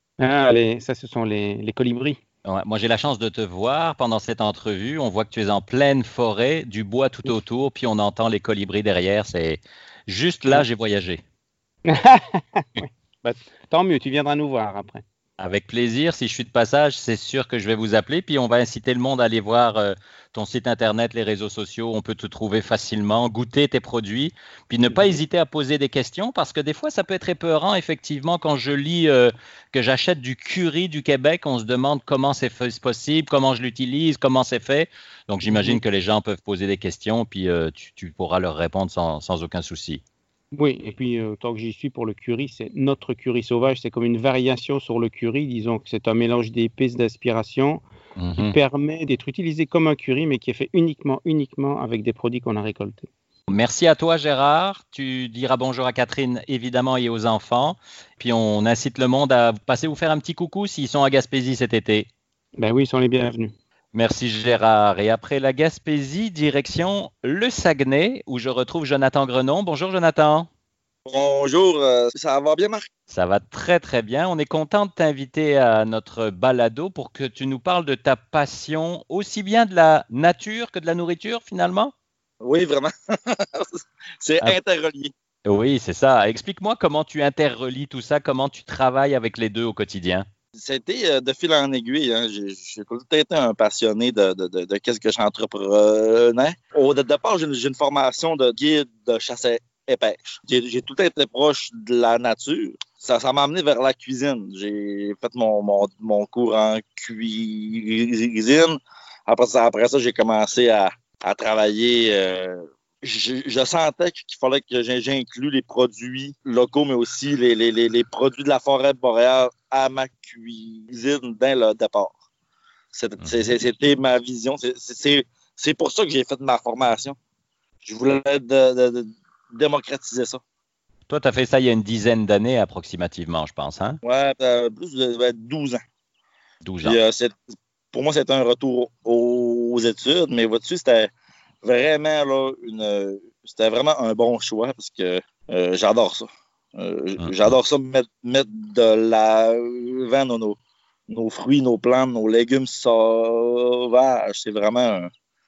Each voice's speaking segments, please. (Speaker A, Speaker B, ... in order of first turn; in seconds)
Speaker A: 0.2-2.2, 11.9-15.0, 24.9-25.2, 35.5-35.8, 40.5-47.8, 48.4-53.1, 62.6-63.5
Speaker B: 2.4-11.2, 15.4-40.0, 48.1-48.5, 53.5-62.1, 63.9-70.5, 73.1-81.9, 85.5-90.2, 123.2-123.5, 131.1-134.0, 136.6-137.0, 147.2-147.5
Speaker C: 71.0-72.9, 82.4-85.1, 90.6-122.2, 122.9-127.2, 127.8-130.4, 134.0-135.8, 136.8-137.3, 137.9-141.1, 141.6-155.1